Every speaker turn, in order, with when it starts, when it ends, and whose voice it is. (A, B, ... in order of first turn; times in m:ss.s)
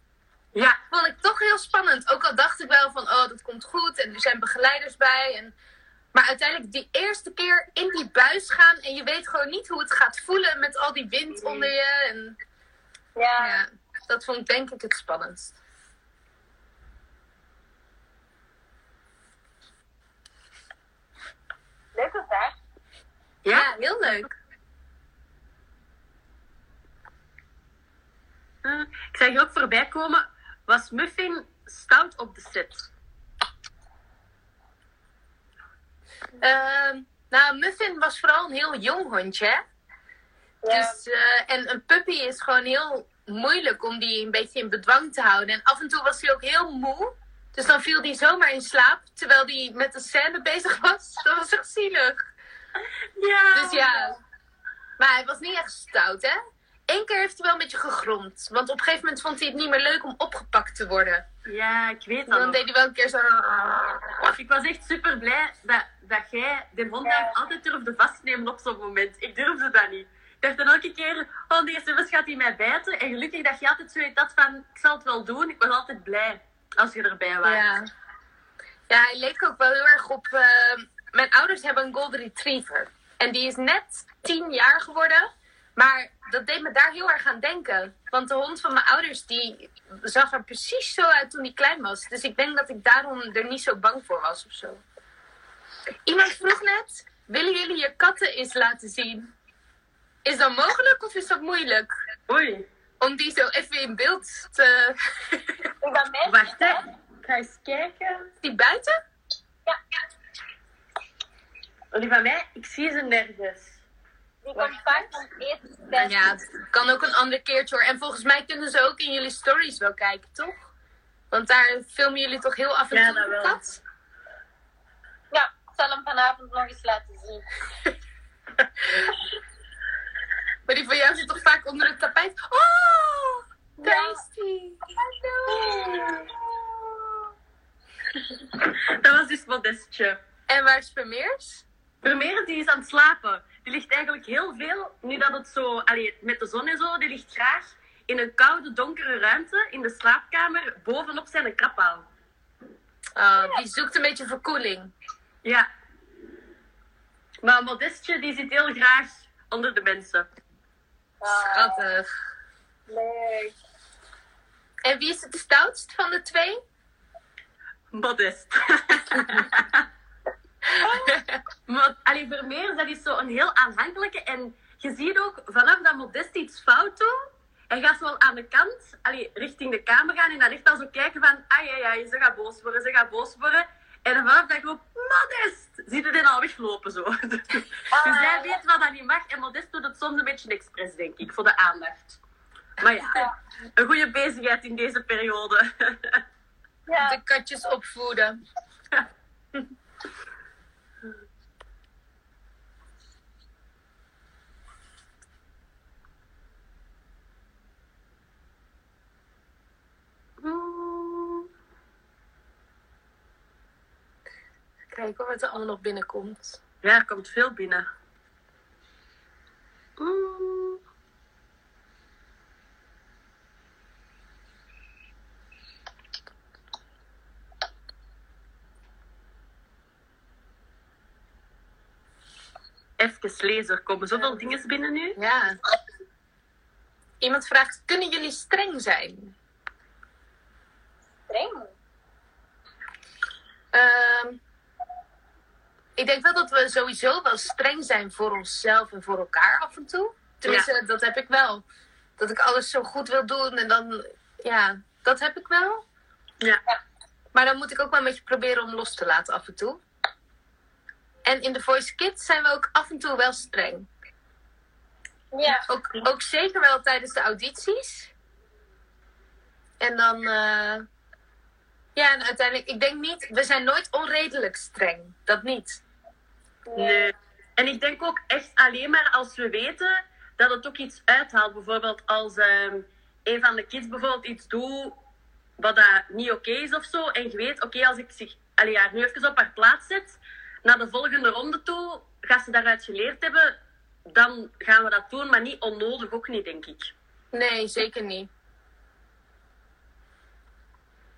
0:00.9-0:05.5 A
0:06.1-0:12.4 A
0:11.4-0:11.7 B
0:13.2-0:13.6 C
0:13.4-0:15.6 A
0:22.0-0:22.6 C
0:23.4-0:24.2 B
0:23.5-0:24.3 A
0:28.6-0:32.9 B
0:36.4-0:39.6 A
0:40.6-0:41.0 C
0:40.7-0:52.2 A
0:53.2-0:54.2 B
0:53.5-0:54.2 A
0:55.0-0:56.4 A
0:56.9-1:01.2 A
1:01.5-1:02.6 B
1:02.3-1:04.3 A
1:04.3-1:17.7 B
1:07.0-1:07.3 C
1:17.4-1:17.9 A
1:18.9-1:34.8 A
1:36.1-1:39.3 A
1:40.2-1:41.9 A
1:42.3-1:42.7 B
1:43.0-1:45.5 A
1:45.8-1:46.8 C
1:46.3-1:48.3 B
1:48.4-1:48.9 A
1:51.9-1:53.8 B
1:54.4-1:56.3 C
1:54.7-1:55.0 B
1:56.0-2:00.7 A
2:01.3-2:03.8 A
2:02.9-2:03.6 B
2:05.3-2:07.4 C
2:08.8-2:09.1 A
2:10.7-2:15.7 A
2:13.8-2:14.2 C
2:15.3-2:16.2 C
2:15.6-2:16.3 B
2:18.5-2:20.2 B
2:20.5-2:21.6 A
2:22.0-2:32.1 B
2:33.2-2:34.9 A
2:33.4-2:33.6 C
2:37.4-2:40.3 B
2:41.2-2:41.8 C
2:41.3-2:42.1 A
2:42.9-2:43.6 C
2:44.8-2:46.6 A
2:47.9-2:49.9 B
2:50.8-2:51.4 A
2:51.7-2:57.1 B
2:57.7-3:12.2 B
3:07.9-3:08.6 C
3:12.8-3:16.2 B
3:16.9-3:17.2 C
3:17.0-3:18.4 A
3:30.4-3:31.5 B
3:34.9-3:36.6 A
3:36.8-3:37.9 B
3:40.0-3:40.8 B
3:53.0-3:55.2 B
3:55.2-3:55.6 A
3:57.2-3:59.4 A
4:01.3-4:01.7 C
4:03.7-4:04.4 A
4:06.0-4:11.6 A
4:12.2-4:15.8 A
4:17.3-4:19.8 A
4:21.2-4:23.9 A
4:25.3-4:25.7 C
4:25.6-4:28.1 A
4:29.8-4:30.8 A
4:32.0-4:35.8 A
4:36.7-4:37.1 C
4:36.8-4:45.0 B
4:45.6-4:53.6 B
4:54.1-4:56.9 B
4:57.3-4:58.3 A